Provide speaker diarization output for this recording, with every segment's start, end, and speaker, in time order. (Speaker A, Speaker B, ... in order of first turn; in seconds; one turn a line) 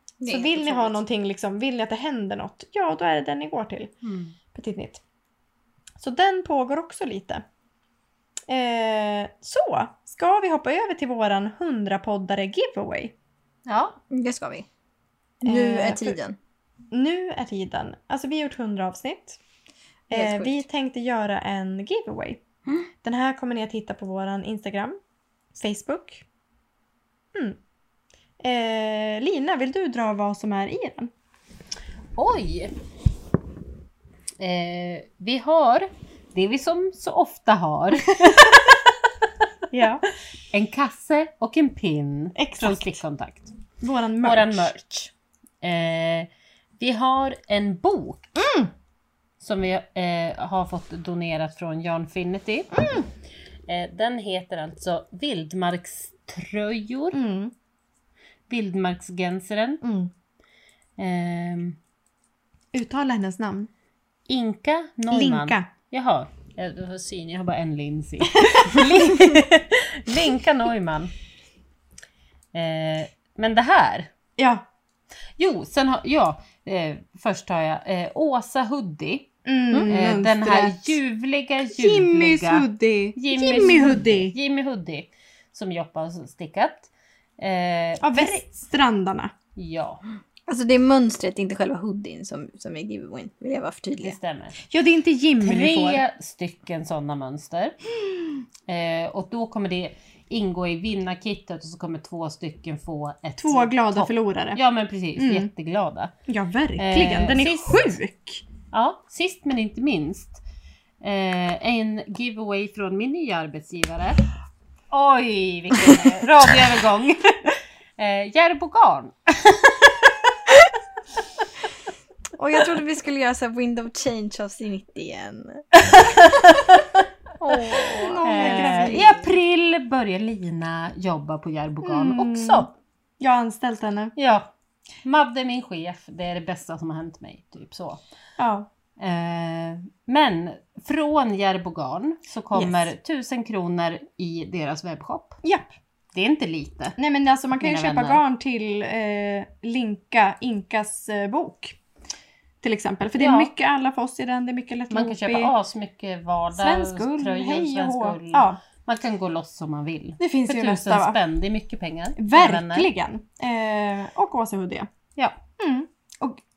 Speaker A: 0.2-1.0
Speaker B: 0.3-3.9
Speaker C: 4.0-4.3
Speaker B: 4.5-5.0
Speaker B: 6.0-7.4
Speaker B: 8.5-13.1
Speaker C: 13.7-14.0
Speaker A: 14.1-14.7
Speaker A: 15.4-16.4
Speaker B: 15.4-16.2
Speaker B: 16.9-19.4
Speaker B: 20.1-22.4
Speaker A: 20.1-20.6
Speaker B: 23.0-25.0
Speaker B: 25.5-26.2
Speaker B: 28.4-31.1
Speaker C: 32.1-32.7
Speaker C: 34.4-38.6
Speaker B: 39.7-40.0
Speaker C: 40.5-43.6
Speaker B: 42.4-43.0
Speaker B: 43.8-44.7
Speaker C: 44.2-48.3
Speaker B: 48.4-48.7
Speaker C: 49.4-52.7
Speaker B: 52.7-53.1
Speaker C: 53.7-57.2
Speaker B: 57.1-57.5
Speaker C: 58.5-59.8
Speaker B: 59.8-60.1
Speaker C: 61.0-61.8
Speaker B: 62.7-63.7
Speaker C: 64.3-71.1
Speaker B: 65.1-65.7
Speaker B: 68.5-68.8
Speaker C: 72.5-74.1
Speaker B: 74.4-74.6
Speaker C: 75.4-79.3
Speaker B: 79.4-81.0
Speaker C: 79.9-88.4
Speaker B: 81.7-84.3
Speaker B: 88.0-89.3
Speaker C: 89.5-90.0
Speaker A: 90.5-94.2
Speaker C: 94.0-94.6
Speaker B: 94.7-96.0
Speaker C: 95.4-97.8
Speaker C: 98.7-106.1
Speaker B: 103.4-104.6
Speaker B: 105.2-105.5
Speaker B: 106.3-108.4
Speaker C: 106.8-107.9
Speaker C: 108.7-110.4
Speaker C: 111.0-114.2
Speaker C: 114.9-120.1
Speaker A: 122.4-125.7
Speaker C: 125.8-127.0
Speaker A: 127.4-129.2
Speaker C: 127.5-132.7
Speaker B: 127.9-129.2
Speaker B: 131.8-132.7
Speaker B: 133.2-134.1
Speaker C: 134.2-134.5
Speaker C: 135.0-138.0
Speaker B: 138.4-138.7
Speaker C: 139.0-145.4
Speaker B: 142.5-142.9
Speaker B: 145.4-145.7
Speaker C: 146.1-146.9
Speaker B: 147.0-151.8
Speaker C: 147.6-148.2
Speaker B: 152.6-155.5
Speaker C: 153.2-153.5
Speaker C: 154.9-162.9
Speaker B: 156.5-158.6
Speaker B: 160.2-161.2
Speaker B: 162.2-164.9
Speaker C: 165.2-165.4
Speaker B: 165.6-166.4